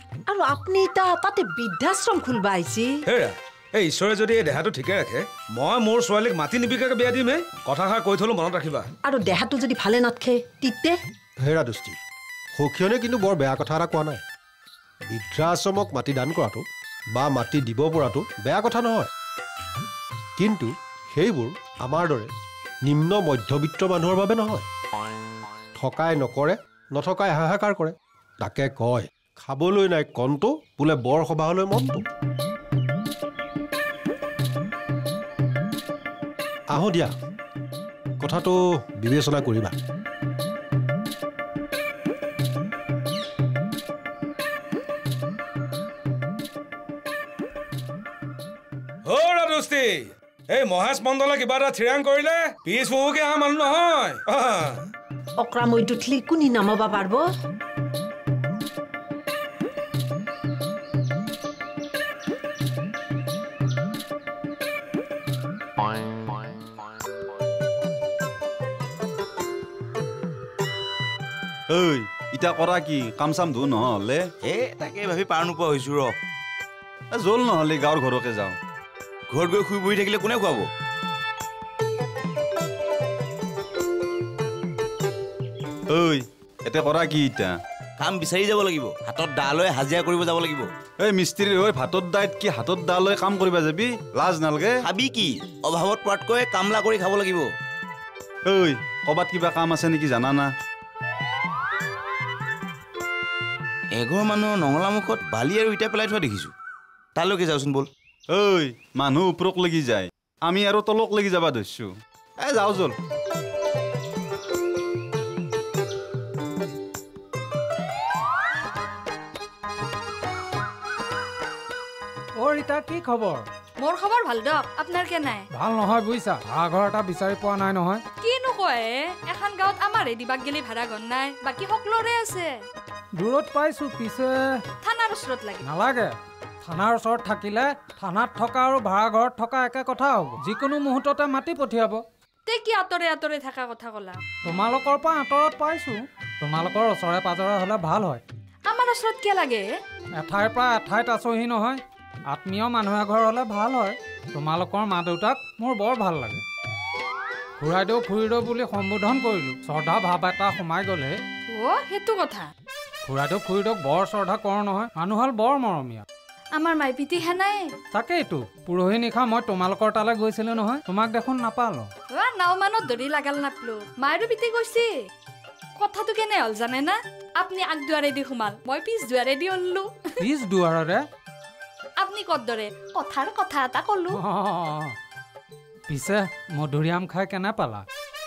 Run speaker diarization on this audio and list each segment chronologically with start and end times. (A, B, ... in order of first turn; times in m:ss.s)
0:00.3-0:02.9 A
0:03.0-0:08.9 B
0:09.0-0:11.0 A
0:11.4-0:12.0 C
0:12.5-0:14.2 C
0:15.1-0:19.1 C
0:20.4-0:22.3 C
0:22.8-0:24.7 C
0:25.8-0:32.0 C
0:36.7-0:37.1 C
0:38.2-0:39.7 C
0:49.0-0:54.8 B
0:55.4-0:57.2 A
1:11.7-1:14.2 D
1:14.4-1:16.1 E
1:17.2-1:18.6 D
1:19.3-1:20.6 E
1:25.9-1:27.6 D
1:28.0-1:30.7 E
1:31.0-1:34.8 D
1:34.8-1:37.5 E
1:38.5-1:40.5 D
1:43.9-1:46.5 E
1:47.2-1:47.9 E
1:48.3-1:51.9 D
1:52.4-1:52.9 D
2:02.4-2:03.4 F
2:03.8-2:05.4 G
2:05.5-2:08.0 F
2:08.2-2:12.5 G
2:13.1-2:14.5 F
2:14.8-2:15.6 G
2:15.6-2:22.0 F
2:22.4-2:24.2 G
2:24.4-2:28.2 F
2:28.7-2:29.7 G
2:30.2-2:36.4 F
2:37.6-2:41.2 F
2:41.5-2:42.5 G
2:43.0-2:46.0 F
2:46.5-2:47.7 G
2:47.9-2:51.9 F
2:52.1-2:54.9 G
2:55.8-2:59.9 G
3:00.2-3:01.0 F
3:02.0-3:04.2 G
3:04.1-3:04.9 F
3:05.9-3:07.8 F